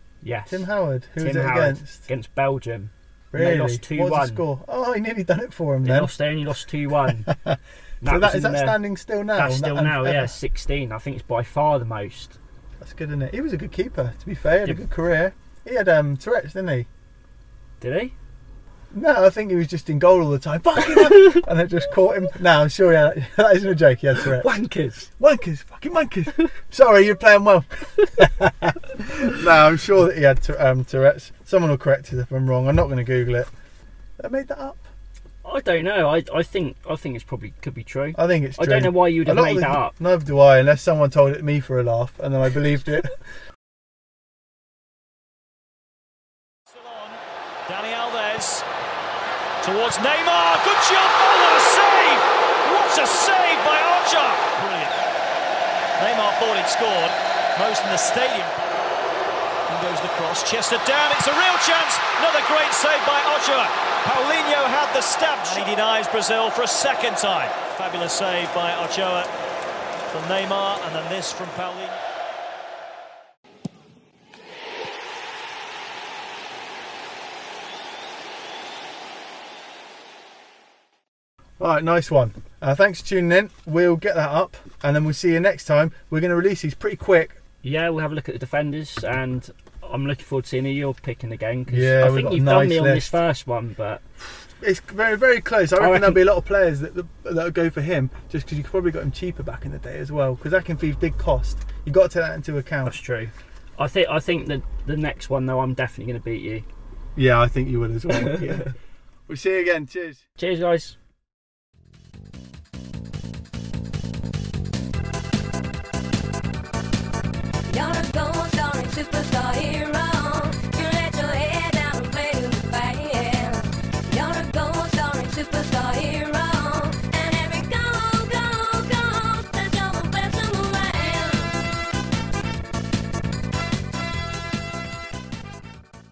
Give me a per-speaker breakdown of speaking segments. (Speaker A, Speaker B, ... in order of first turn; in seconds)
Speaker A: 0.2-4.5, 5.8-7.3, 8.0-8.8, 9.3-12.4, 17.8-18.1, 21.1-21.4, 24.2-25.1, 35.4-40.0, 87.6-94.0, 95.8-96.3, 102.8-106.7, 108.1-108.6, 110.4-111.0
Speaker B: 0.5-2.1, 3.3-6.1, 7.3-10.3, 12.8-16.9, 18.9-24.5, 25.2-33.5, 34.2-34.9, 38.2-43.1, 81.6-87.4, 91.7-93.1, 94.6-103.0, 107.2-108.7, 109.3-110.2
Speaker C: 46.7-48.7, 49.6-55.1, 56.0-58.8, 59.7-69.3, 70.1-72.0
Speaker D: 117.7-131.6